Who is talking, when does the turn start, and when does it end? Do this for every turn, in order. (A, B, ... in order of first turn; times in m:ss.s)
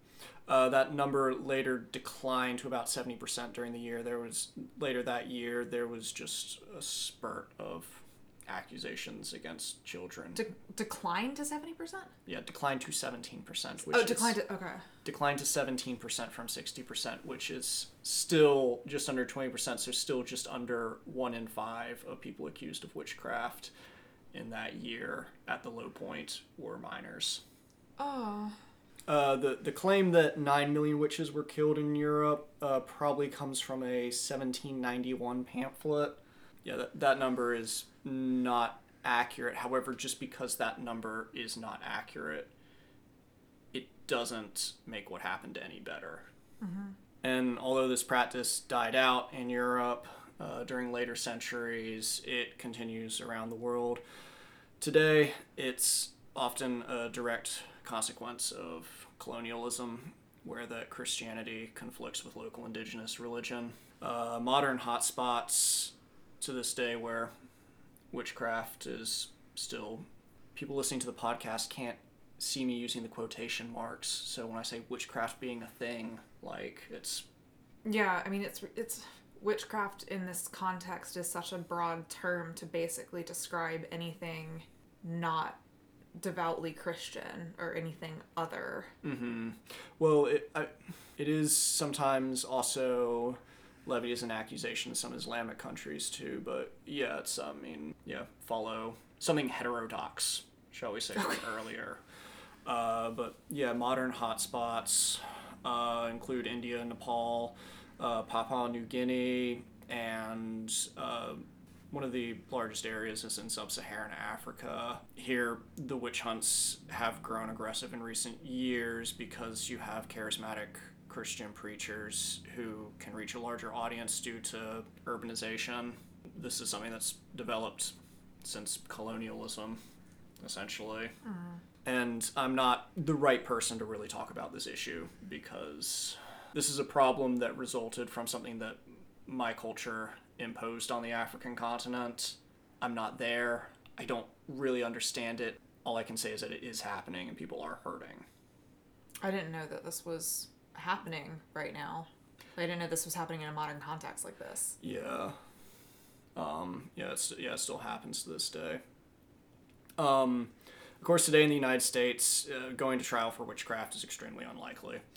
0:00.5-0:10.4 A
0:10.4-0:12.1 B
0:12.3-0:14.4 A
0:13.9-0:14.8 B
0:15.0-0:23.7 A
0:24.3-0:27.4 A
0:28.0-0:28.6 B
0:29.1-0:42.5 A
0:43.7-0:46.3 A
0:46.6-0:47.0 B
0:47.2-0:54.0 A
0:54.8-1:07.3 A
1:08.1-1:17.3 A
1:17.8-1:25.6 B
1:26.2-1:28.9 B
1:29.0-1:42.0 A
1:42.7-2:09.8 A
2:10.4-2:11.2 A
2:11.2-2:11.6 B
2:11.8-2:28.3 A
2:29.2-2:34.8 B
2:34.8-2:35.4 A
2:36.4-2:38.8 A
2:40.0-2:45.0 A